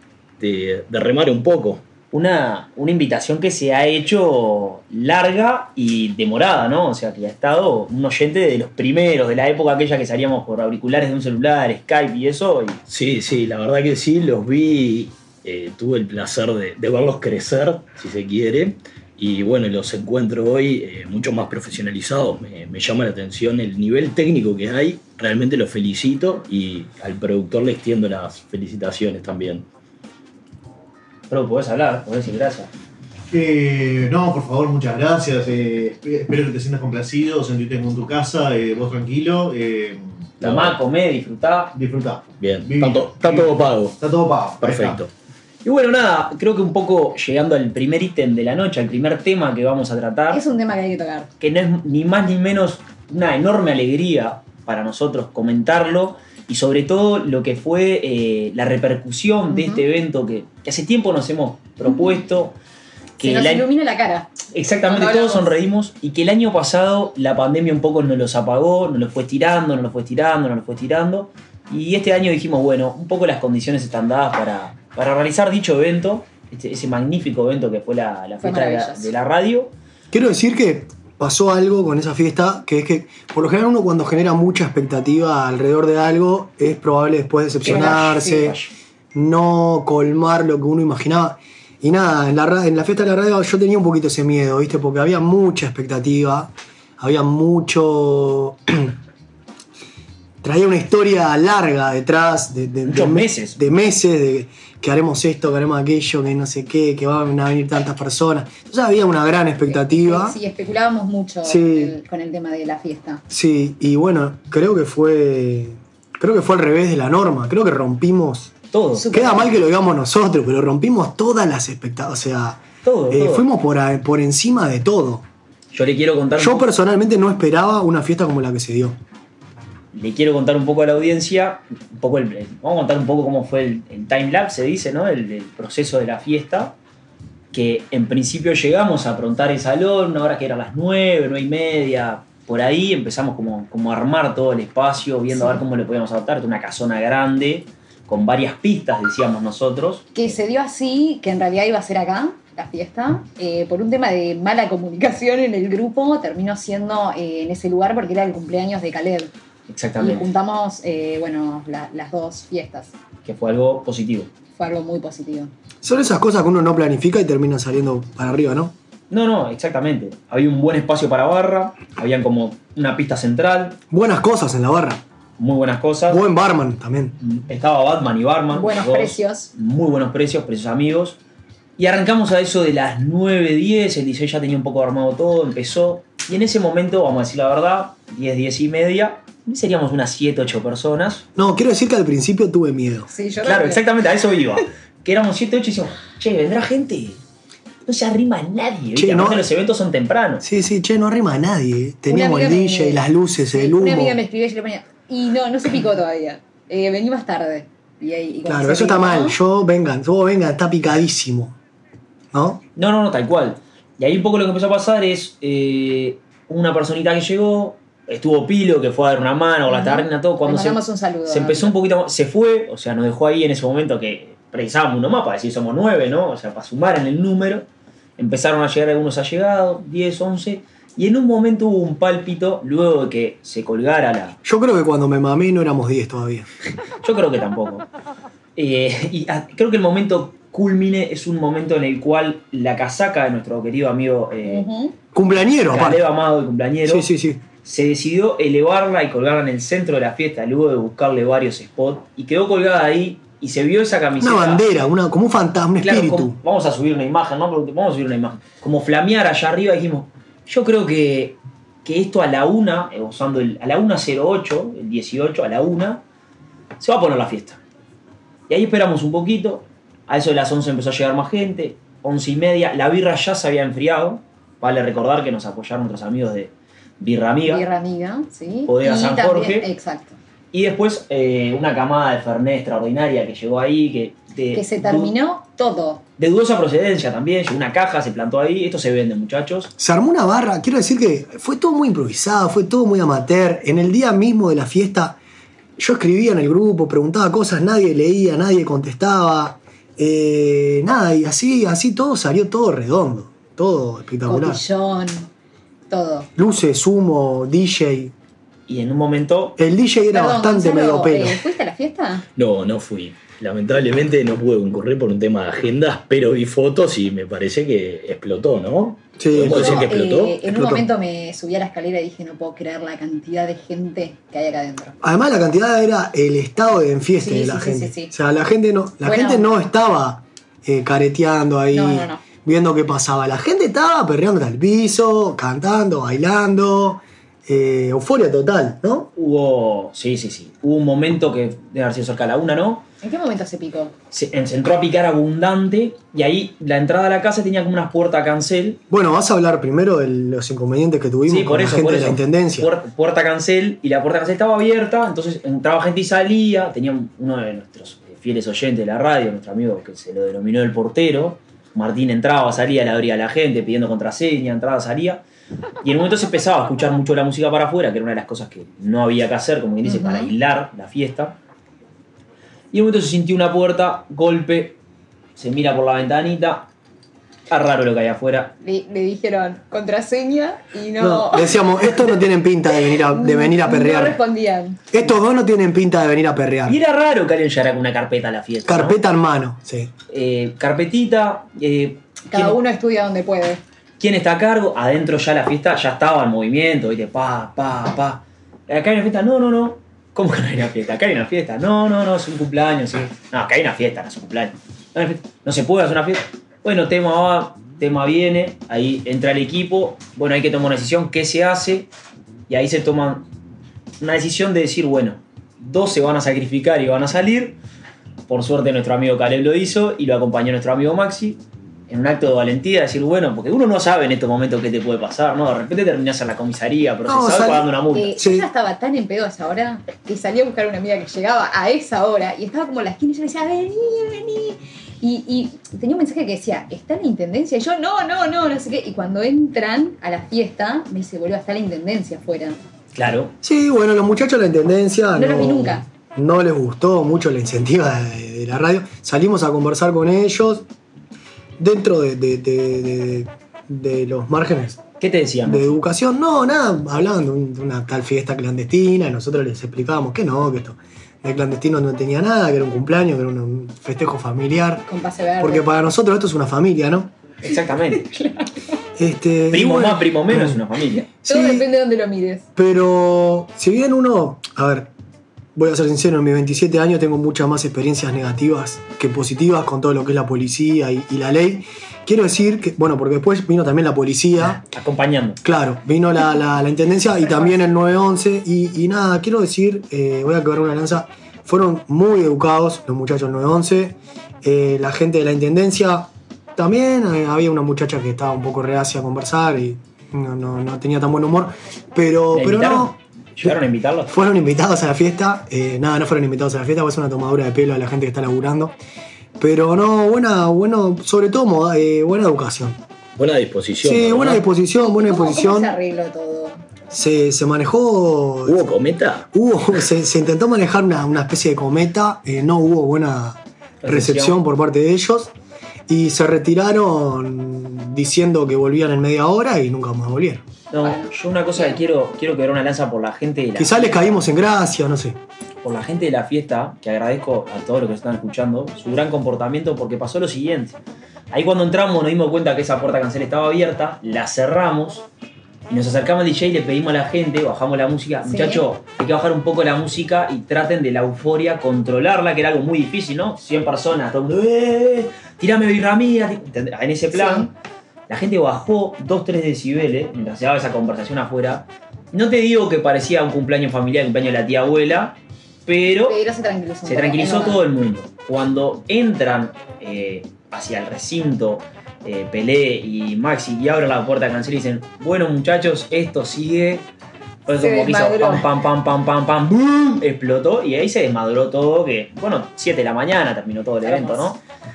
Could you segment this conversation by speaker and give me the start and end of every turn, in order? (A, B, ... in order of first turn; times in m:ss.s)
0:00.4-0:01.8 A
0:02.1-0:12.8 B
0:12.9-0:29.7 A
0:31.3-0:32.7 B
0:33.3-0:40.3 C
0:40.4-0:41.7 B
0:40.4-0:40.8 A
0:41.7-0:45.0 C
0:42.4-0:44.0 A
0:44.6-0:45.1 A
0:45.6-0:50.4 B
0:50.3-0:51.3 D
0:51.4-1:02.6 B
0:59.5-0:59.8 D
1:01.9-1:02.1 D
1:03.2-1:03.6 B
1:03.2-1:05.5 D
1:04.5-1:19.7 B
1:18.4-1:19.1 D
1:20.1-1:28.6 E
1:27.6-1:28.7 B
1:27.6-1:28.5 D
1:29.1-1:38.9 E
1:40.4-1:50.4 E
1:42.8-1:43.6 B
1:49.7-1:53.2 D
1:51.4-1:52.0 E
1:53.3-1:58.5 E
1:58.7-1:59.1 B
1:59.0-1:59.5 D
1:59.1-2:05.2 E
2:02.8-2:03.5 B
2:05.7-2:06.7 B
2:06.4-2:09.0 E
2:09.9-2:16.8 B
2:17.5-2:30.1 B
2:25.3-2:25.6 D
2:30.1-2:39.3 D
2:39.7-2:40.3 B
2:40.0-2:42.9 D
2:43.2-2:44.3 B
2:44.6-2:45.5 D
2:45.8-2:48.7 E
2:49.1-2:53.8 B
2:53.9-2:55.0 E
2:55.4-2:56.2 B
2:56.1-2:57.2 E
2:57.2-3:01.2 B
2:58.5-2:59.5 D
3:01.8-3:11.2 B
3:11.3-3:13.1 E
3:13.1-3:13.9 D
3:13.4-3:17.2 B
3:17.8-3:20.4 B
3:18.9-3:19.5 E
3:20.4-3:24.2 E
3:22.1-3:23.0 D
3:23.5-3:29.4 D
3:28.4-3:31.6 E
3:32.3-3:32.6 E
3:32.8-3:47.6 B
3:39.7-3:41.8 D
3:48.2-3:54.4 B
3:54.4-3:56.5 E
3:57.0-3:57.8 B
3:58.6-4:04.6 B
4:04.4-4:05.0 D
4:05.1-4:06.0 E
4:05.7-4:07.1 B
4:06.8-4:07.4 E
4:07.6-4:14.7 B
4:14.2-4:16.4 E
4:15.8-4:26.0 B
4:26.8-4:27.6 B
4:28.5-4:37.6 B
4:37.4-4:40.2 D
4:38.7-4:39.7 B
4:40.5-4:45.1 B
4:44.5-4:46.0 D
4:46.2-4:49.7 B
4:49.8-4:55.2 E
4:55.8-5:04.6 E
5:04.2-5:05.3 D
5:05.9-5:06.3 D
5:06.4-5:08.1 E
5:08.7-5:09.6 B
5:09.6-5:11.4 E
5:10.1-5:12.2 D
5:12.4-5:20.5 A
5:19.2-5:19.9 E
5:19.5-5:25.0 D
5:20.5-5:20.8 E
5:25.0-5:39.1 E
5:27.2-5:28.1 D
5:29.0-5:29.5 D
5:31.7-5:32.2 D
5:39.2-5:42.8 B
5:43.0-5:43.9 D
5:44.1-5:48.8 B
5:48.9-5:52.7 E
5:51.3-6:05.2 B
6:05.8-6:11.4 B
6:09.8-6:10.3 D
6:12.7-6:14.8 B
6:15.4-6:16.7 B
6:17.5-6:18.5 B
6:18.6-6:22.1 D
6:21.0-6:24.2 E
6:22.9-6:24.8 D
6:24.9-6:26.8 E
6:26.6-6:29.0 B
6:28.6-6:29.9 E
6:30.1-6:32.6 B
6:32.3-6:33.6 D
6:34.0-6:51.9 B
6:52.5-6:53.3 B
6:54.0-6:57.6 B
6:58.3-7:08.1 B
7:07.0-7:08.5 E
7:07.9-7:22.6 D
7:22.9-7:23.3 B
7:23.4-7:30.7 E
7:25.1-7:25.8 D
7:31.6-7:34.8 E
7:35.0-7:35.8 B
7:35.4-7:44.9 E
7:44.9-7:45.6 D
7:45.4-7:47.1 E
7:47.4-7:48.1 B
7:47.4-7:48.5 D
7:49.0-7:50.6 E
7:49.5-7:51.1 B
7:51.2-7:51.7 E
7:51.2-7:52.4 D
7:52.6-7:54.9 E
7:55.6-8:04.6 E
8:04.4-8:05.4 B
8:05.4-8:23.6 E
8:22.3-8:24.1 B
8:24.1-8:28.7 E
8:29.4-8:32.8 E
8:33.2-8:34.4 A
8:33.8-8:35.7 E
8:34.8-8:36.6 D
8:36.9-8:38.7 E
8:38.4-8:39.3 A
8:39.3-8:45.3 E
8:43.8-8:44.4 B
8:45.9-8:50.4 E
8:50.7-8:54.2 B
8:50.8-8:51.8 D
8:53.6-8:55.2 E
8:55.6-9:00.8 B
9:01.3-9:05.0 B
9:05.7-9:17.5 B
9:08.2-9:08.6 D
9:17.1-9:17.5 D
9:18.1-9:26.2 B
9:26.0-9:27.6 D
9:26.8-9:36.9 B
9:37.4-9:44.4 B
9:37.5-9:38.5 D
9:43.8-9:44.3 D